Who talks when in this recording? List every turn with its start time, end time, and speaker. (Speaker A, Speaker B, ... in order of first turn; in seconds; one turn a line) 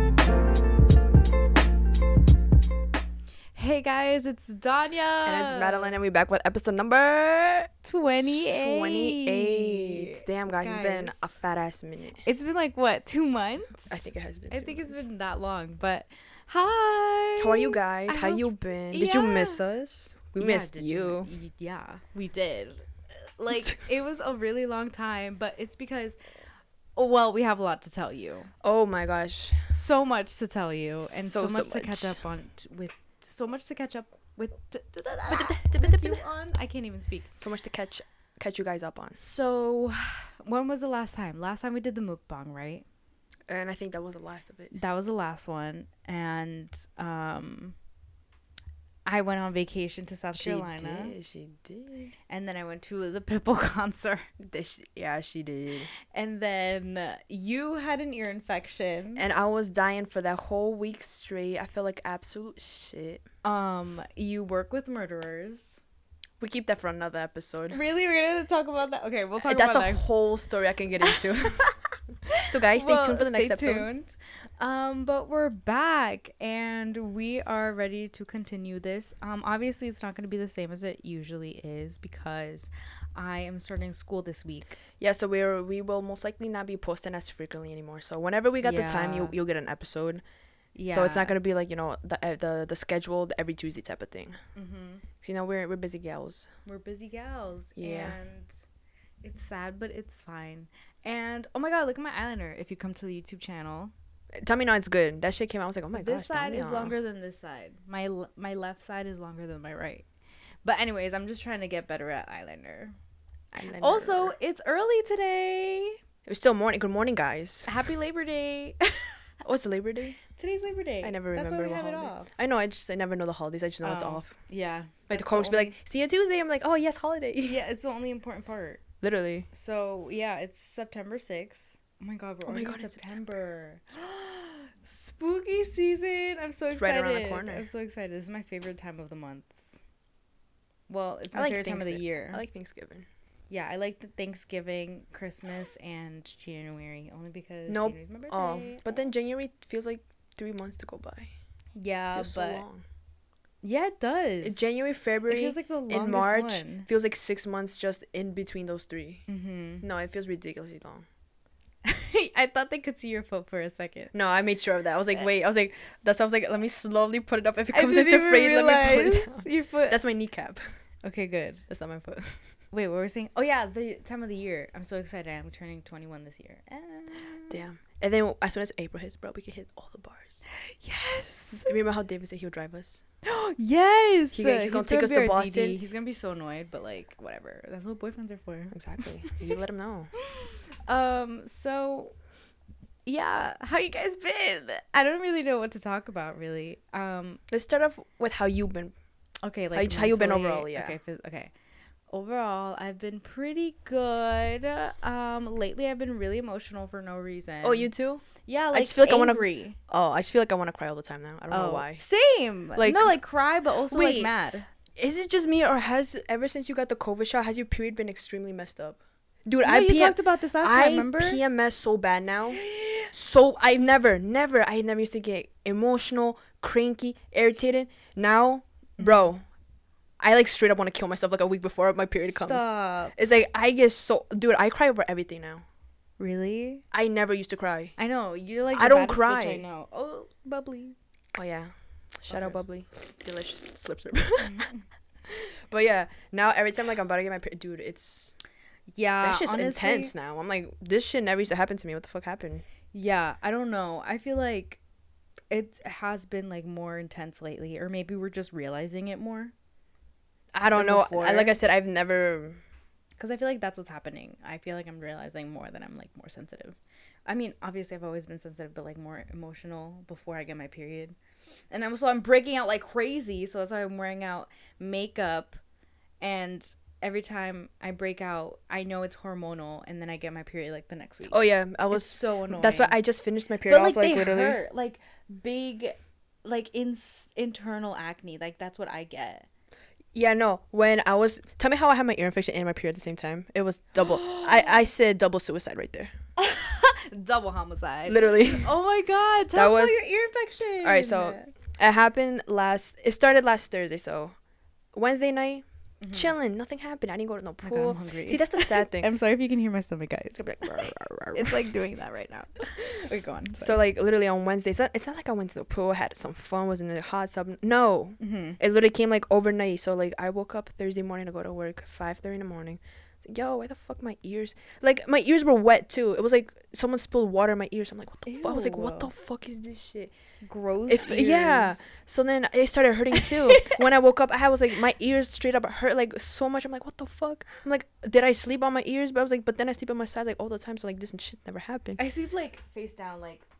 Speaker A: 3.5-6.0
Speaker B: 5.2-12.2
Speaker A: 7.8-11.3
Speaker A: 12.2-13.9
Speaker B: 13.8-15.1
Speaker A: 14.5-19.6
Speaker B: 17.4-21.3
Speaker A: 20.4-22.8
Speaker A: 23.4-26.2
Speaker A: 27.0-28.5
Speaker B: 28.6-29.7
Speaker A: 29.7-37.3
Speaker B: 31.0-32.2
Speaker B: 35.3-36.2
Speaker B: 37.4-39.2
Speaker A: 39.2-42.8
Speaker B: 43.5-44.8
Speaker A: 44.7-47.8
Speaker A: 49.1-51.1
Speaker B: 50.3-52.1
Speaker A: 52.3-54.3
Speaker B: 54.4-55.9
Speaker A: 56.1-59.2
Speaker B: 59.2-63.2
Speaker A: 63.4-65.8
Speaker B: 66.4-67.8
Speaker A: 67.7-70.0
Speaker B: 69.4-71.7
Speaker A: 71.0-84.8
Speaker B: 72.5-73.9
Speaker B: 85.0-90.2
Speaker A: 88.6-89.3
Speaker A: 90.7-91.3
Speaker B: 90.9-94.4
Speaker A: 94.5-95.0
Speaker B: 95.2-96.5
Speaker A: 96.7-98.6
Speaker B: 97.8-98.2
Speaker A: 99.2-103.9
Speaker B: 104.4-106.9
Speaker A: 105.9-110.0
Speaker A: 110.6-112.9
Speaker B: 113.5-114.3
Speaker A: 113.8-116.0
Speaker B: 116.3-117.7
Speaker A: 117.7-119.2
Speaker B: 119.4-120.2
Speaker A: 120.3-122.3
Speaker B: 121.0-124.3
Speaker A: 123.8-125.8
Speaker B: 125.1-127.6
Speaker A: 127.4-128.8
Speaker B: 129.0-129.5
Speaker A: 129.5-139.8
Speaker B: 132.4-133.1
Speaker B: 136.7-137.7
Speaker A: 140.9-142.4
Speaker B: 141.3-143.1
Speaker A: 143.5-149.0
Speaker B: 147.7-151.3
Speaker A: 151.8-152.6
Speaker B: 152.1-152.8
Speaker A: 153.6-154.7
Speaker B: 154.4-159.2
Speaker A: 155.3-156.9
Speaker A: 159.3-159.8
Speaker B: 159.8-161.0
Speaker A: 161.8-164.1
Speaker B: 164.1-170.6
Speaker A: 167.7-170.0
Speaker A: 171.0-171.6
Speaker B: 171.7-172.4
Speaker A: 172.7-177.6
Speaker B: 177.5-180.4
Speaker A: 180.7-181.8
Speaker B: 181.6-183.0
Speaker A: 183.2-189.5
Speaker B: 184.3-185.8
Speaker B: 188.7-190.1
Speaker A: 190.2-192.1
Speaker A: 193.1-197.4
Speaker B: 197.5-198.9
Speaker A: 199.4-201.5
Speaker B: 199.7-201.0
Speaker A: 202.1-209.8
Speaker B: 207.6-212.0
Speaker A: 211.5-214.7
Speaker B: 212.8-213.2
Speaker B: 213.9-214.3
Speaker B: 215.0-229.4
Speaker A: 219.6-221.4
Speaker A: 222.5-223.1
Speaker A: 229.0-229.3
Speaker B: 230.2-235.7
Speaker A: 232.2-233.1
Speaker A: 236.2-236.8
Speaker B: 236.9-237.9
Speaker A: 238.0-240.9
Speaker B: 238.7-239.7
Speaker B: 241.3-244.7
Speaker A: 242.3-242.6
Speaker A: 244.4-244.8
Speaker B: 245.3-248.3
Speaker A: 248.9-250.1
Speaker B: 249.2-252.6
Speaker A: 252.9-254.8
Speaker A: 255.5-259.5
Speaker B: 260.5-262.6
Speaker A: 260.7-261.6
Speaker A: 263.2-271.1
Speaker A: 271.7-275.6
Speaker A: 276.2-283.0
Speaker B: 281.3-284.6
Speaker A: 283.6-289.5
Speaker B: 290.1-296.1
Speaker A: 294.0-294.8
Speaker A: 296.4-301.5
Speaker B: 298.1-298.7
Speaker B: 299.5-300.0
Speaker B: 300.8-304.4
Speaker B: 304.9-309.1
Speaker A: 306.0-306.3
Speaker A: 307.6-313.8
Speaker B: 310.4-311.7
Speaker B: 313.6-330.1
Speaker A: 318.2-318.6
Speaker A: 328.3-329.1
Speaker A: 330.4-331.9
Speaker B: 330.9-342.0
Speaker A: 333.1-333.8
Speaker A: 342.0-343.4